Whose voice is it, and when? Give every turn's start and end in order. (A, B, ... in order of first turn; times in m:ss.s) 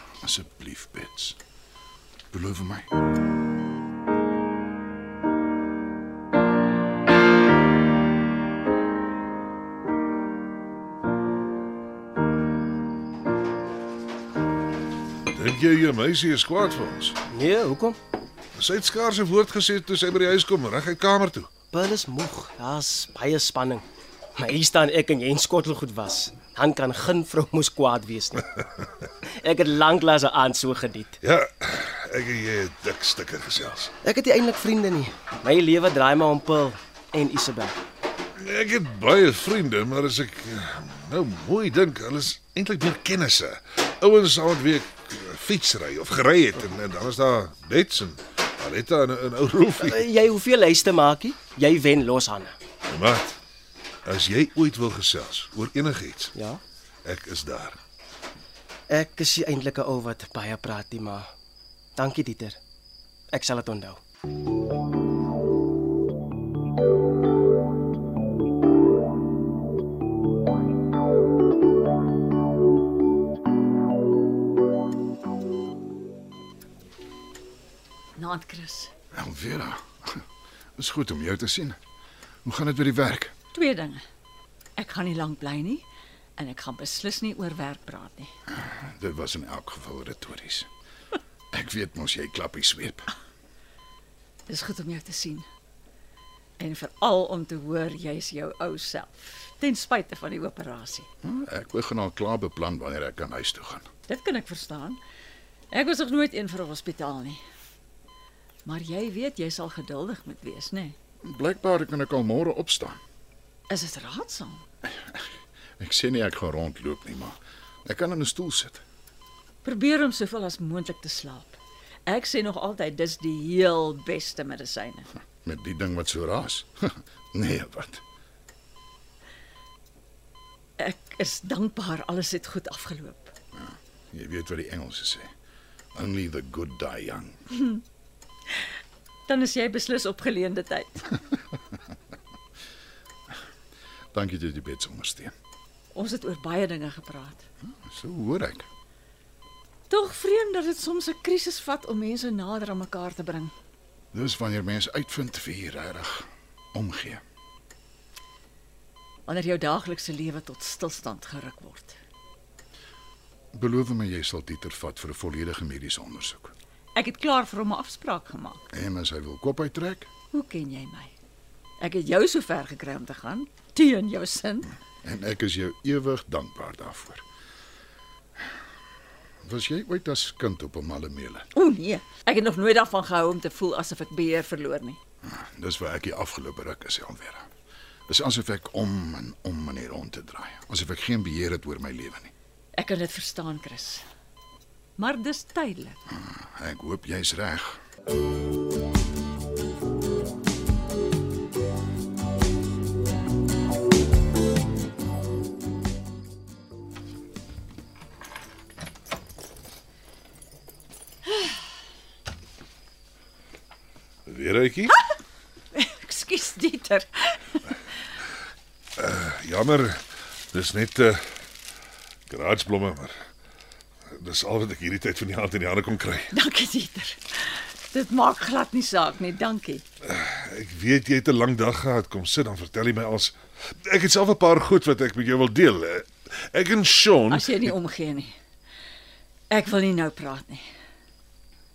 0:00.2-0:01.4 A
0:02.3-0:02.9 A
0:15.3-0:17.2 B
0:17.3-0:18.0 C
0:18.5-0:21.5 B
0:21.7-0:23.8 C
0:24.4-0:28.5 C
0:29.2-0:31.2 C
0:31.2-0:33.9 B
0:34.0-0:37.8 C
0:38.4-0:50.0 B
0:49.8-0:52.5 C
0:52.9-0:53.3 B
0:54.0-0:56.3 B
0:56.4-0:56.6 C
0:57.0-0:57.8 B
0:58.9-1:01.2 C
1:02.0-1:02.6 C
1:03.3-1:04.0 C
1:18.2-1:18.9 D
1:19.1-1:20.2 A
1:20.8-1:21.8 A
1:22.4-1:23.3 A
1:23.5-1:24.0 D
1:24.8-1:25.8 D
1:26.4-1:28.3 D
1:28.5-1:30.7 A
1:31.5-1:33.1 A
1:34.5-1:35.4 D
1:36.6-1:41.1 D
1:41.2-1:43.9 A
1:44.1-1:45.0 D
1:45.7-1:47.4 D
1:48.6-1:50.9 D
1:51.2-1:53.0 A
1:53.7-1:54.6 D
1:55.8-1:58.8 A
1:59.6-2:05.1 D
2:05.4-2:08.0 A
2:10.8-2:13.3 D
2:13.5-2:15.3 A
2:15.9-2:17.4 A
2:19.3-2:21.1 D
2:24.1-2:25.3 A
2:25.9-2:27.4 D
2:27.7-2:28.7 A
2:29.9-2:33.5 D
2:34.1-2:37.2 A
2:39.3-2:42.0 D
2:43.5-2:46.5 A
2:46.9-2:48.6 D
2:48.7-2:50.1 A
2:50.3-2:51.1 D
2:51.8-2:54.7 D
2:55.0-2:57.2 A
2:59.4-3:01.5 A
3:01.5-3:05.0 D
3:05.2-3:07.5 A
3:08.1-3:12.3 A
3:12.8-3:14.0 D
3:15.0-3:16.0 D
3:16.1-3:17.8 A
3:34.3-3:34.9 B
3:35.7-3:37.6 D
3:39.0-3:41.2 B
3:42.3-3:43.1 B
3:44.1-3:46.3 B
3:46.3-3:49.8 D
3:50.0-3:57.7 B
3:57.3-3:58.3 D
3:59.5-4:00.6 D